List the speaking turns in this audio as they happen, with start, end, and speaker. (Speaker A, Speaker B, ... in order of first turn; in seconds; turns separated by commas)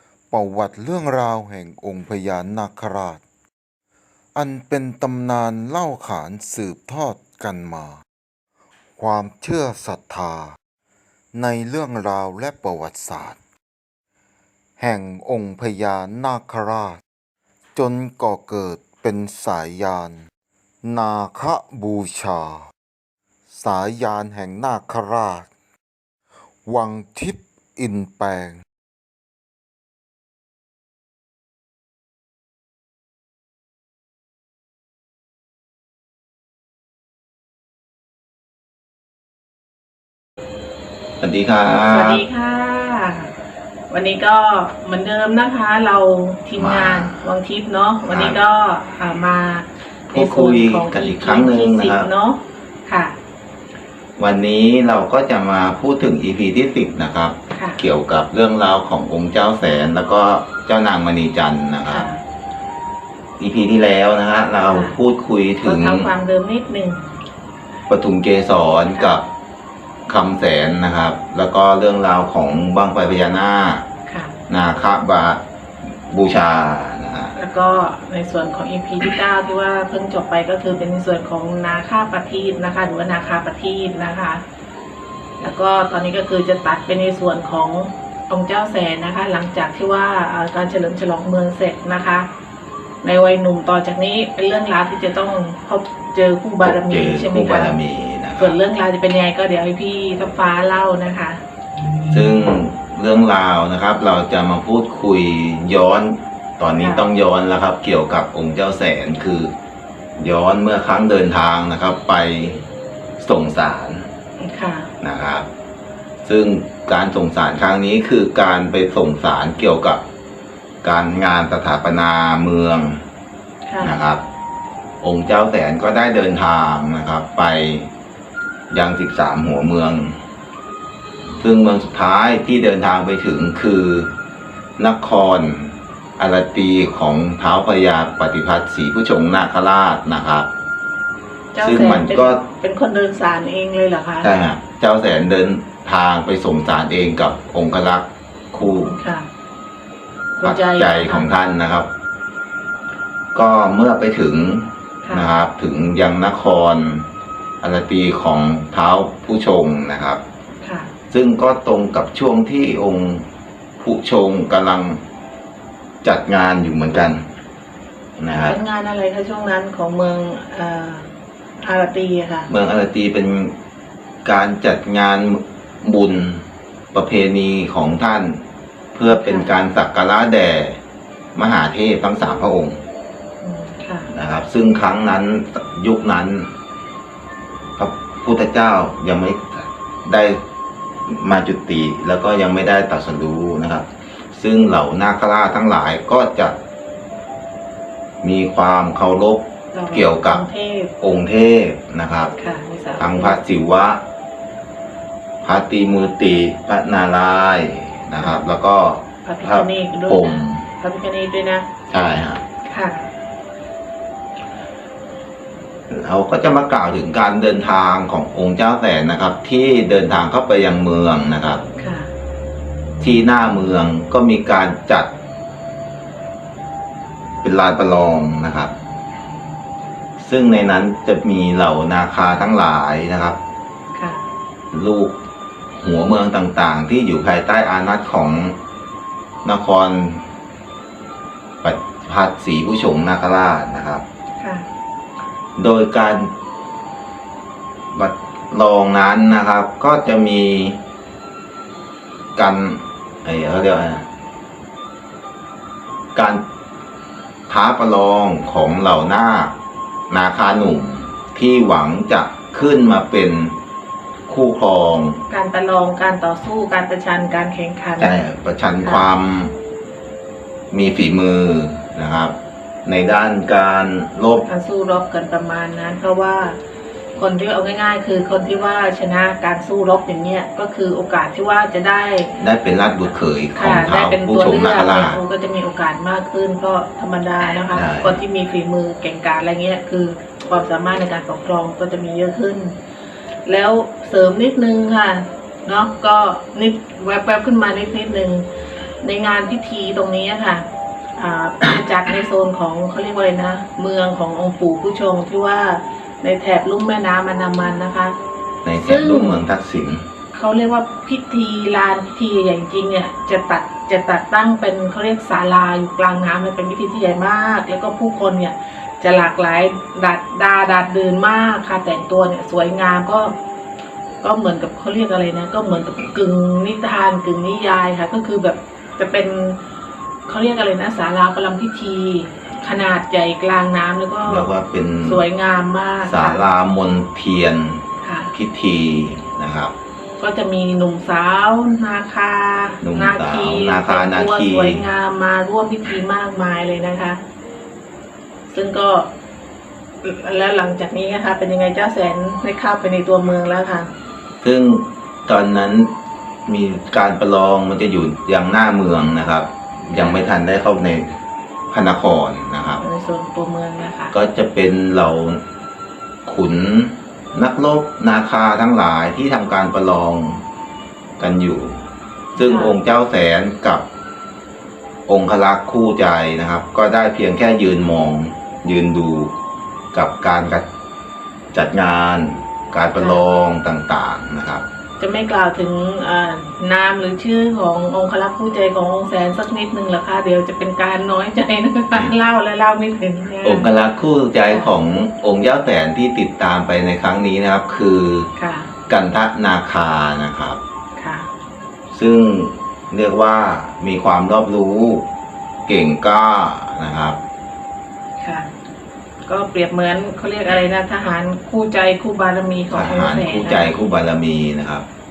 Speaker A: 0.3-3.2, Speaker A: 4.4-8.0, Speaker A: 9.0-10.6, Speaker A: 11.3-13.4, Speaker A: 14.8-17.0, Speaker A: 17.8-20.2, Speaker B: 18.8-19.0, Speaker A: 20.8-22.6, Speaker A: 23.6-25.5, Speaker A: 26.7-28.6, Speaker B: 41.2-42.2, Speaker C: 41.9-43.3, Speaker C: 43.9-53.2, Speaker B: 46.6-47.2, Speaker B: 48.0-48.4, Speaker B: 50.1-52.1, Speaker B: 54.2-62.1, Speaker C: 57.5-57.8, Speaker C: 61.9-62.2, Speaker B: 63.4-66.1, Speaker C: 64.7-65.0, Speaker C: 65.6-67.0, Speaker B: 67.9-69.2, Speaker C: 68.9-69.2, Speaker B: 70.1-73.9, Speaker C: 74.1-74.4, Speaker B: 74.5-77.3, Speaker C: 77.3-84.4, Speaker C: 85.4-92.3, Speaker C: 93.0-97.8, Speaker B: 96.6-98.6, Speaker C: 98.4-101.4, Speaker B: 102.1-109.5, Speaker C: 106.8-107.0, Speaker B: 110.2-112.6, Speaker B: 113.2-114.1, Speaker C: 114.4-114.9, Speaker B: 115.0-115.5, Speaker B: 116.2-120.0, Speaker B: 120.8-123.0, Speaker C: 123.6-124.0, Speaker B: 123.8-124.2, Speaker B: 125.0-127.9, Speaker B: 128.7-130.2, Speaker B: 131.4-134.1, Speaker B: 134.8-140.5, Speaker C: 141.5-144.3, Speaker B: 141.6-142.4, Speaker B: 144.2-148.9, Speaker C: 148.6-149.3, Speaker C: 150.4-151.3, Speaker B: 150.4-151.9, Speaker B: 153.3-157.1, Speaker B: 157.6-160.2, Speaker C: 160.6-160.9, Speaker B: 161.1-163.3, Speaker B: 163.8-165.0, Speaker B: 166.0-167.2, Speaker B: 168.2-168.6, Speaker C: 168.4-171.1, Speaker C: 171.6-172.5, Speaker B: 172.5-173.6, Speaker B: 174.2-178.4, Speaker B: 178.9-180.8, Speaker C: 179.1-179.5, Speaker B: 181.3-182.8, Speaker C: 183.4-184.1, Speaker B: 184.1-186.5, Speaker B: 187.8-190.4, Speaker B: 191.1-196.6, Speaker B: 198.2-200.4, Speaker C: 199.7-200.9, Speaker B: 201.0-202.3, Speaker C: 202.4-203.4, Speaker B: 203.0-204.0, Speaker B: 205.4-210.7, Speaker C: 209.2-211.7, Speaker B: 211.9-212.4, Speaker C: 212.6-213.1, Speaker B: 215.9-221.6, Speaker C: 221.8-222.1, Speaker B: 223.0-225.1, Speaker B: 227.4-228.7, Speaker B: 230.2-233.4, Speaker C: 233.9-234.3, Speaker B: 234.7-235.2, Speaker B: 235.8-238.6, Speaker B: 239.4-240.2, Speaker B: 241.6-244.1, Speaker C: 244.4-244.7, Speaker B: 245.6-246.3, Speaker B: 247.9-250.8, Speaker B: 252.4-254.1, Speaker B: 256.1-256.4, Speaker B: 257.5-259.6, Speaker B: 260.1-263.6, Speaker B: 264.3-265.2, Speaker C: 265.3-268.2, Speaker B: 268.0-269.5, Speaker C: 268.8-269.1, Speaker B: 270.7-274.5, Speaker C: 274.4-276.6, Speaker C: 277.1-282.3, Speaker B: 282.4-285.2, Speaker C: 283.6-292.8, Speaker B: 287.7-288.2, Speaker C: 293.5-298.5, Speaker C: 299.0-308.1, Speaker B: 308.6-310.1, Speaker C: 308.8-309.5, Speaker C: 310.3-323.4, Speaker C: 324.2-329.6, Speaker C: 330.3-334.5, Speaker B: 334.2-335.2, Speaker C: 335.0-336.4, Speaker B: 336.1-339.7, Speaker C: 338.0-338.3, Speaker C: 340.2-347.2, Speaker B: 342.8-344.9, Speaker C: 348.5-349.1, Speaker C: 350.0-353.9, Speaker B: 354.4-355.9, Speaker B: 356.5-361.1, Speaker C: 359.9-360.3, Speaker B: 361.7-362.8, Speaker C: 362.8-364.1, Speaker B: 364.1-365.4, Speaker B: 366.2-370.4, Speaker B: 371.2-371.8, Speaker C: 372.4-372.8, Speaker B: 372.4-373.9, Speaker B: 375.1-379.3, Speaker B: 379.9-380.7, Speaker B: 381.5-384.6, Speaker C: 383.0-383.2, Speaker C: 385.0-393.7, Speaker B: 393.4-398.3, Speaker C: 398.4-398.7, Speaker B: 398.9-400.6, Speaker C: 401.0-401.3, Speaker B: 401.9-405.1, Speaker B: 405.7-407.2, Speaker C: 408.2-408.5, Speaker C: 409.2-413.8, Speaker B: 412.7-414.9